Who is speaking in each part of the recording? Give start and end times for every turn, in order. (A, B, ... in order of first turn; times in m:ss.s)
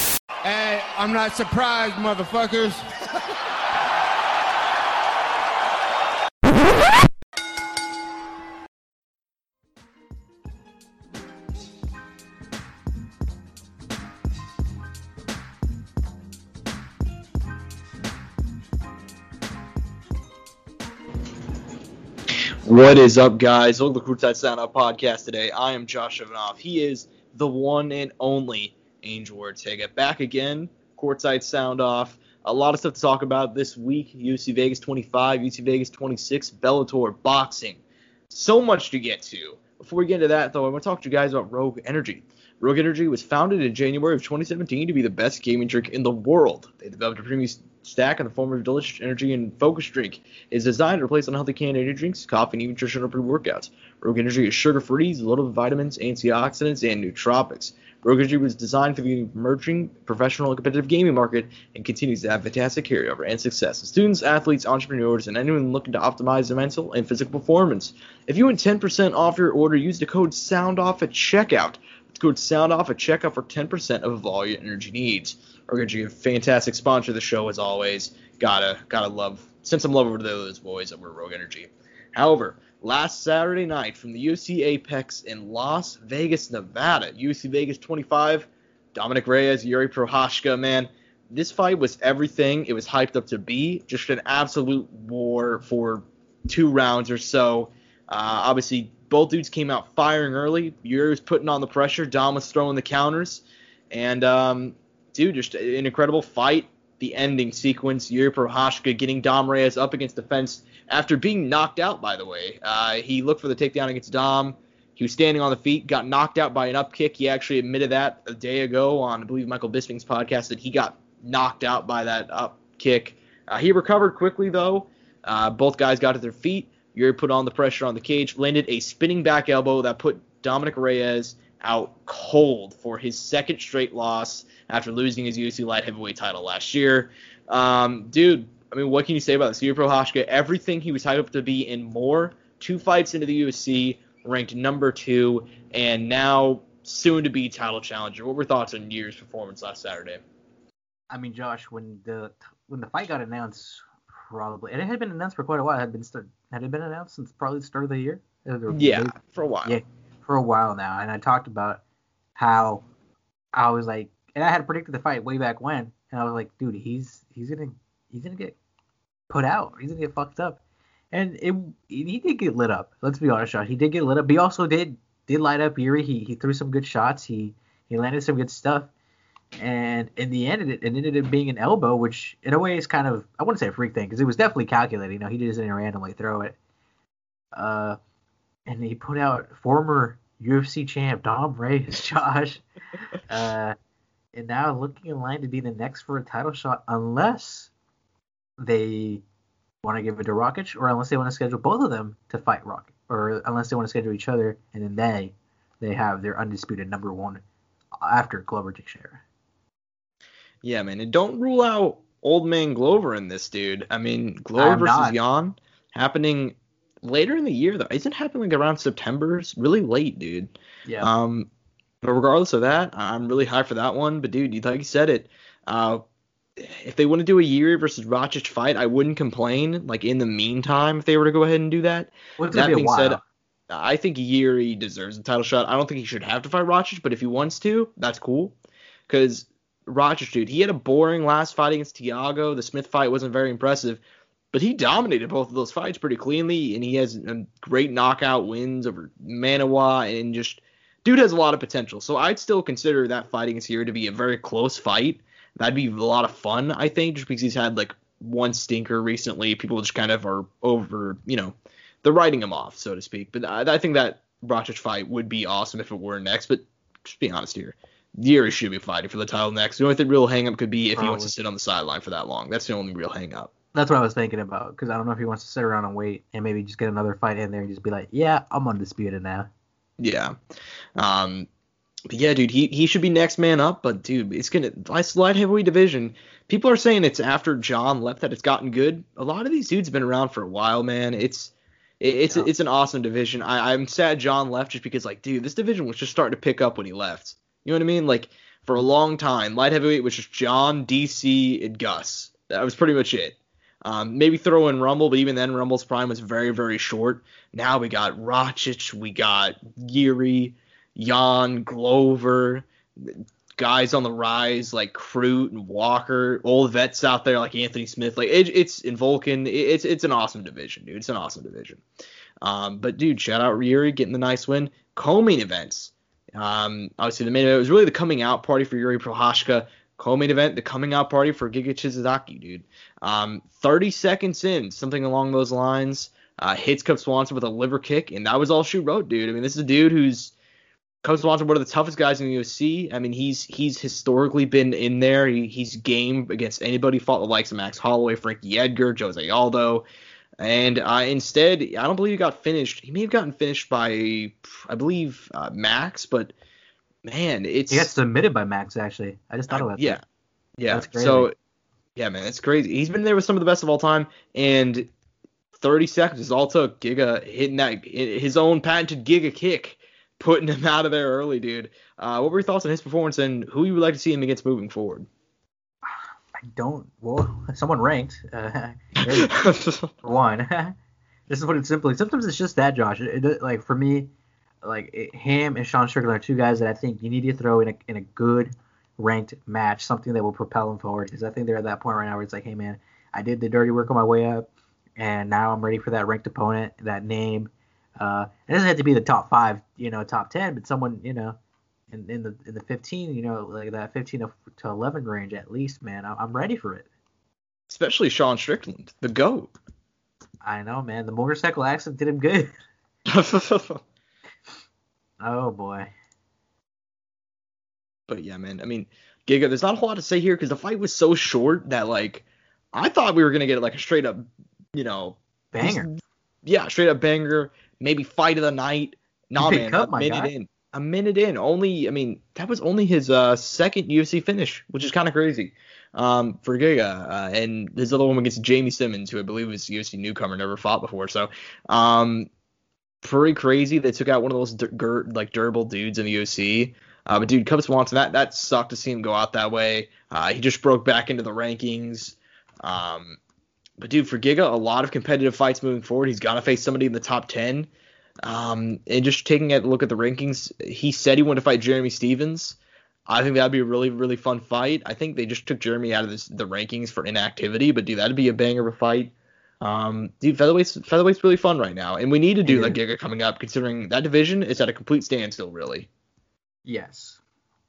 0:00.4-0:03.0 A
0:22.7-2:30.2 B
2:31.1-2:41.8 C
2:38.7-2:39.8 B
2:42.4-2:42.8 C
2:43.5-2:48.6 C
2:49.3-2:50.6 C
2:51.1-2:58.9 C
2:59.6-3:06.6 C
3:07.6-3:08.0 C
3:08.7-3:12.6 C
3:13.2-3:13.8 C
3:14.3-3:17.7 C
3:18.6-3:19.2 C
3:19.8-3:27.4 C
3:28.0-3:29.2 C
3:30.6-3:41.5 B
3:34.6-3:35.2 C
3:42.0-3:46.0 B
3:46.6-3:58.6 B
3:52.4-3:53.2 C
3:59.1-4:04.0 B
4:04.5-4:33.5 B
4:31.0-4:31.3 C
4:33.7-4:39.5 C
4:40.0-4:40.4 B
4:41.0-4:41.5 B
4:42.1-5:21.8 B
5:22.4-5:40.3 B
5:41.0-5:49.8 B
5:50.4-5:56.3 B
5:57.0-5:57.9 B
5:57.7-6:00.0 C
5:59.5-6:00.0 B
6:00.6-6:01.4 B
6:00.7-6:01.3 C
6:02.0-6:04.9 B
6:05.6-6:15.1 B
6:15.9-6:19.3 C
6:19.0-6:19.9 B
6:20.0-6:20.8 C
6:21.3-6:24.1 C
6:24.6-6:41.4 C
6:41.9-6:46.9 C
6:47.7-6:49.5 B
6:50.4-6:52.5 C
6:53.1-6:53.8 B
6:55.2-6:55.9 C
6:58.1-7:22.3 B
7:05.5-7:05.9 C
7:09.4-7:10.3 C
7:23.0-7:33.2 B
7:33.8-7:37.7 B
7:38.2-7:55.9 B
7:52.4-7:52.8 C
7:56.7-7:57.2 C